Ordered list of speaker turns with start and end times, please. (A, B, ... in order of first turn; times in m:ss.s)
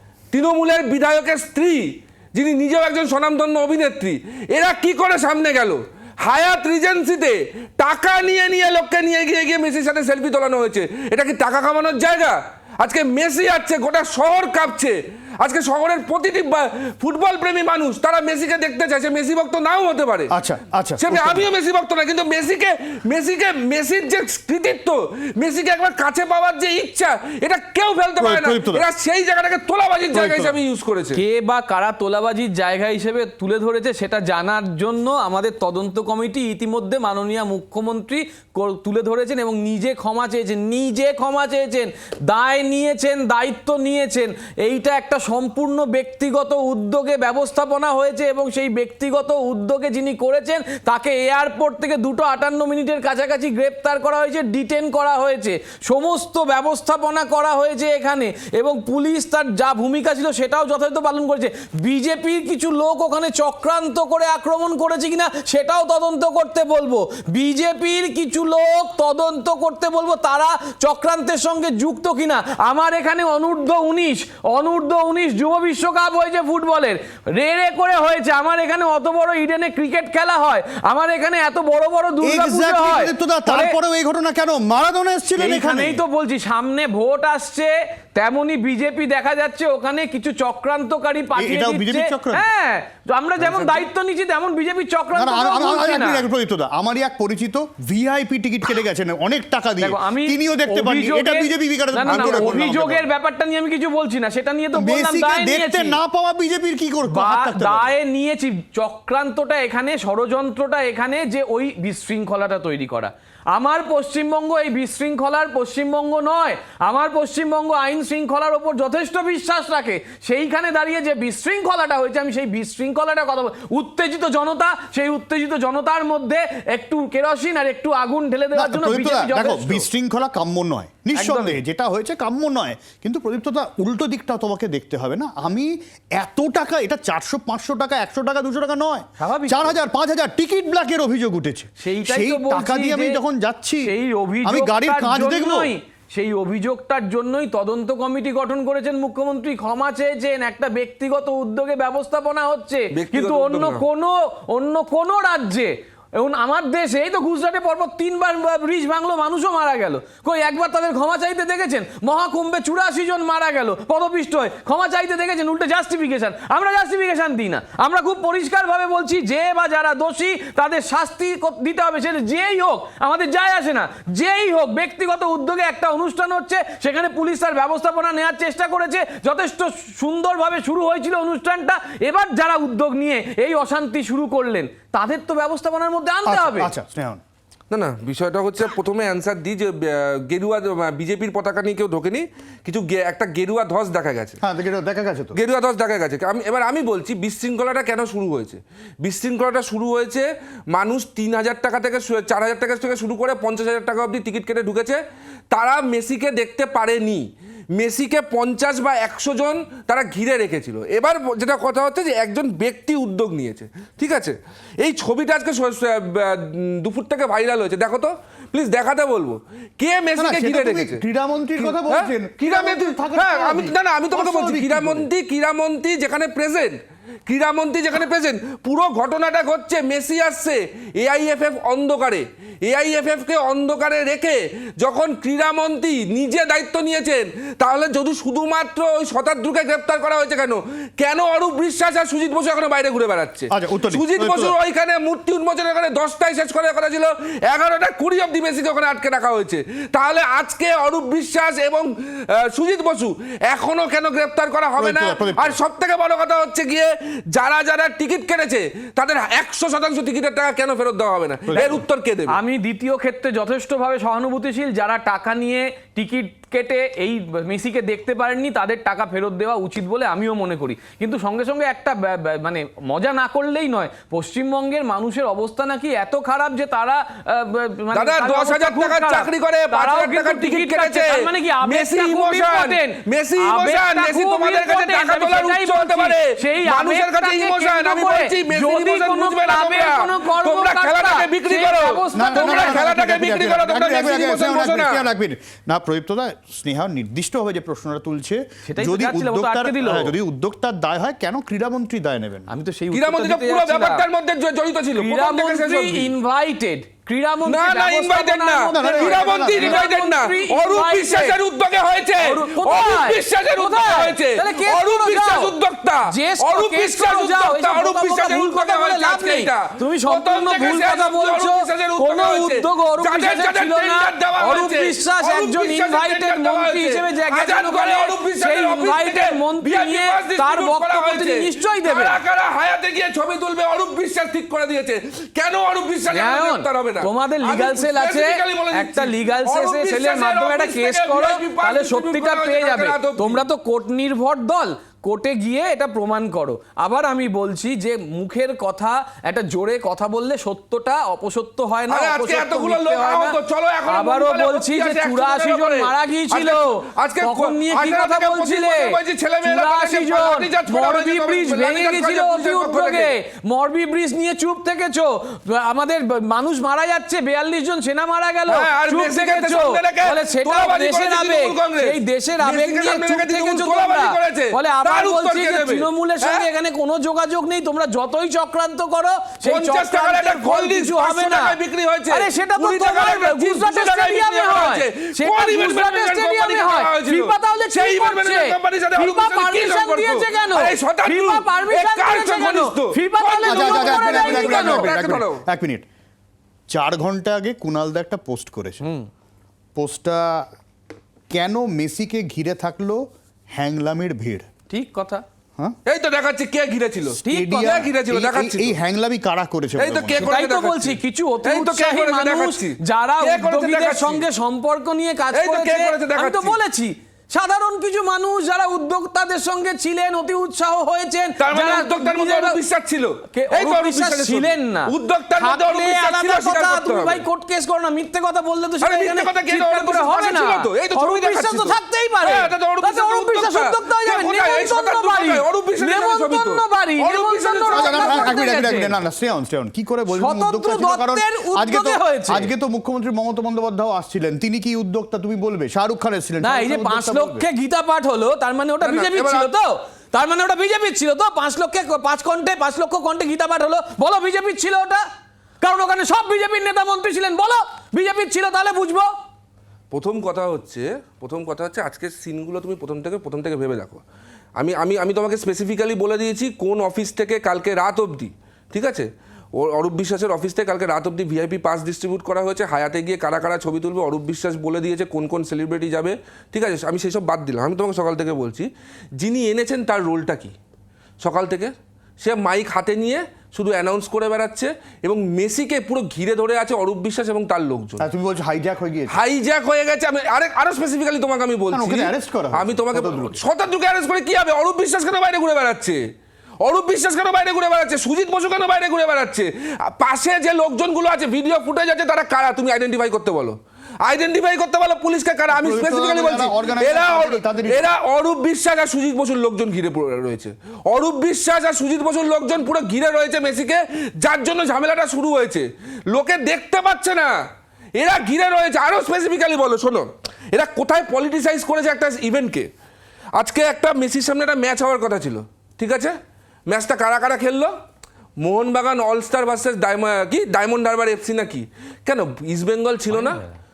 0:00.3-0:20.3 A
0:20.3-0:21.5 B
0:21.0-0:31.2 A
0:28.2-0:28.8 B
0:30.1-0:30.6 B
0:31.2-1:23.7 C
1:22.2-1:26.0 B
1:25.4-1:36.2 C
1:31.4-1:32.5 B
1:33.4-1:33.7 B
1:35.1-1:43.0 B
1:39.8-1:46.0 C
1:42.0-1:42.5 A
1:44.8-1:47.9 B
1:47.1-2:09.9 C
2:08.5-2:25.7 B
2:11.2-2:11.6 C
2:19.2-2:19.8 C
2:21.8-2:23.2 C
2:23.8-3:06.7 C
2:32.9-2:33.8 A
3:06.3-3:07.2 B
3:07.7-3:14.4 A
3:14.4-3:15.4 B
3:15.3-3:25.0 A
3:25.5-3:41.0 A
3:40.2-3:45.1 B
3:41.6-3:46.8 A
3:47.3-4:22.4 A
4:03.5-4:04.5 B
4:14.8-4:15.6 B
4:21.5-4:21.8 B
4:22.3-4:52.8 C
4:37.9-4:55.0 A
4:52.1-5:02.5 B
4:58.7-5:00.1 C
5:02.5-5:04.0 C
5:02.9-5:06.1 A
5:05.0-5:11.3 C
5:07.4-5:43.4 A
5:08.7-5:09.8 B
5:12.2-5:15.5 C
5:16.1-5:32.2 C
5:36.1-5:53.4 C
5:51.9-6:03.2 A
5:53.9-6:21.6 C
6:08.5-6:16.4 A
6:19.4-6:35.4 A
6:22.1-6:34.9 C
6:33.4-6:35.9 B
6:36.7-6:38.8 B
6:38.8-6:39.1 C
6:39.8-6:40.5 B
6:41.3-6:44.5 B
6:44.7-6:45.2 C
6:45.9-6:48.8 A
6:47.2-6:50.3 B
6:47.2-6:47.8 C
6:49.8-6:54.2 A
6:50.2-7:02.6 C
6:55.3-6:56.6 A
7:01.4-7:07.2 A
7:03.3-7:19.0 C
7:08.8-7:18.4 A
7:17.7-7:27.5 B
7:20.1-7:22.5 C
7:26.4-7:35.0 C
7:28.8-7:29.5 A
7:35.6-7:39.1 C
7:39.9-7:44.0 A
7:44.6-7:58.7 A
7:59.2-8:00.6 A
8:01.2-8:08.1 A
8:08.0-8:09.2 B
8:09.1-8:16.0 A
8:11.7-8:13.4 B
8:16.6-8:37.4 A
8:25.5-8:27.9 B
8:38.0-8:42.7 A
8:43.4-8:46.1 A
8:46.7-8:47.7 A
8:48.4-8:53.4 A